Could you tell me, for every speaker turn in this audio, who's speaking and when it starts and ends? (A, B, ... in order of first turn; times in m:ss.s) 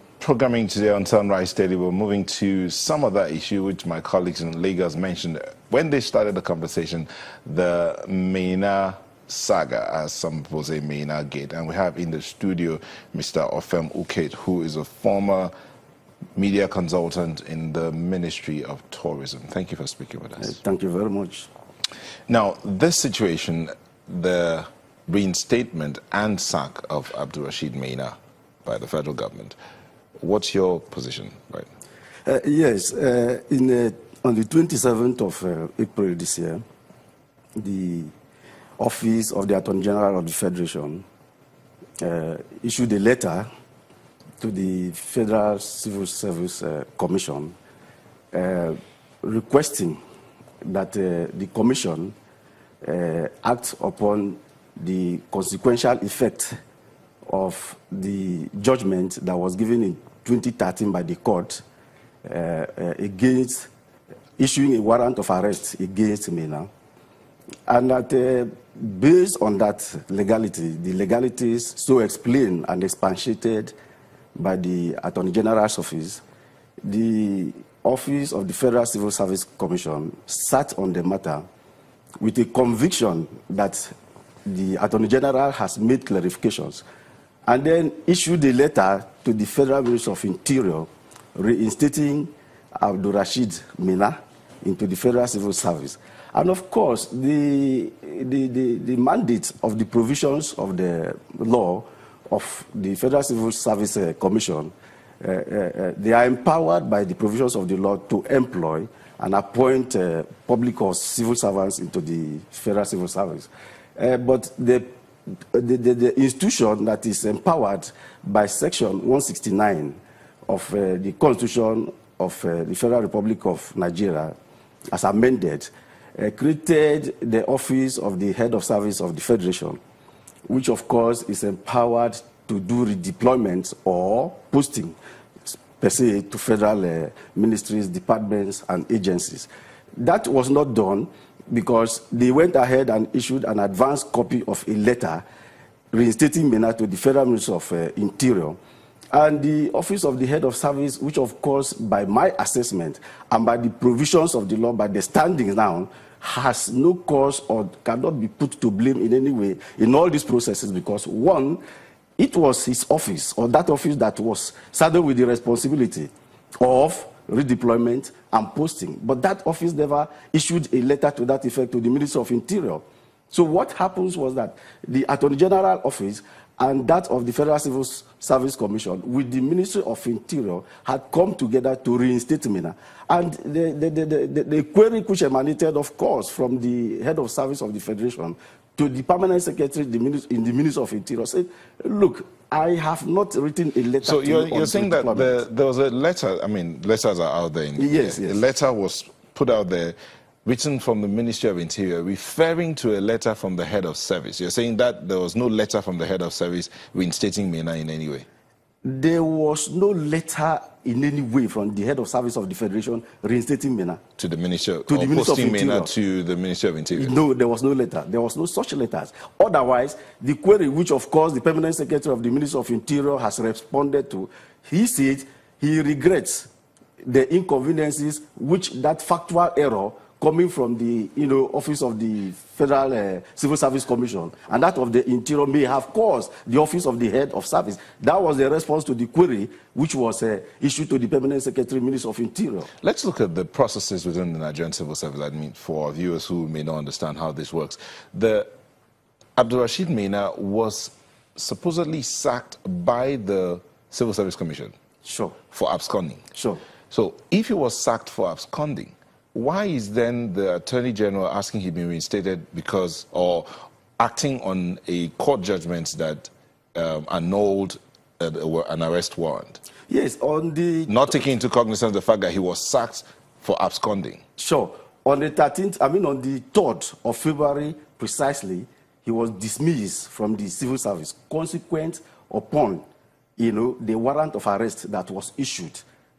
0:00.2-0:15.5 A
0:16.4-0:20.5 A
0:20.4-0:21.5 B
0:22.3-0:29.6 A
0:30.2-0:31.7 A
0:32.3-0:36.6 B
0:37.6-0:38.1 B
0:38.8-0:41.0 B
0:42.0-0:43.5 B
0:44.4-0:47.6 B
0:48.3-0:50.0 B
0:50.6-0:52.2 B
0:52.8-0:56.5 B
0:57.3-1:01.6 B
1:02.3-1:03.7 B
1:04.4-1:06.7 B
1:07.7-1:13.7 B
1:14.4-1:16.2 B
1:16.8-1:21.4 B
1:22.2-1:23.9 B
1:24.5-1:26.8 B
1:27.5-1:54.9 B
1:55.5-2:04.4 B
2:04.9-2:09.8 B
2:10.5-2:25.2 B
2:25.9-2:28.6 B
2:29.1-2:41.6 B
2:42.2-3:15.4 B
3:14.0-3:28.3 A
3:17.8-3:18.4 B
3:28.8-3:34.0 B
3:34.2-3:37.2 A
3:34.9-3:35.9 B
3:36.9-3:46.5 B
3:47.0-4:02.7 B
4:02.8-4:08.5 A
4:09.4-4:14.7 A
4:15.0-4:15.4 B
4:15.5-4:16.2 A
4:16.3-4:16.6 B
4:16.9-4:23.5 A
4:24.0-4:29.6 A
4:29.9-4:31.0 B
4:30.9-4:34.2 A
4:34.4-4:42.8 B
4:43.4-4:45.8 B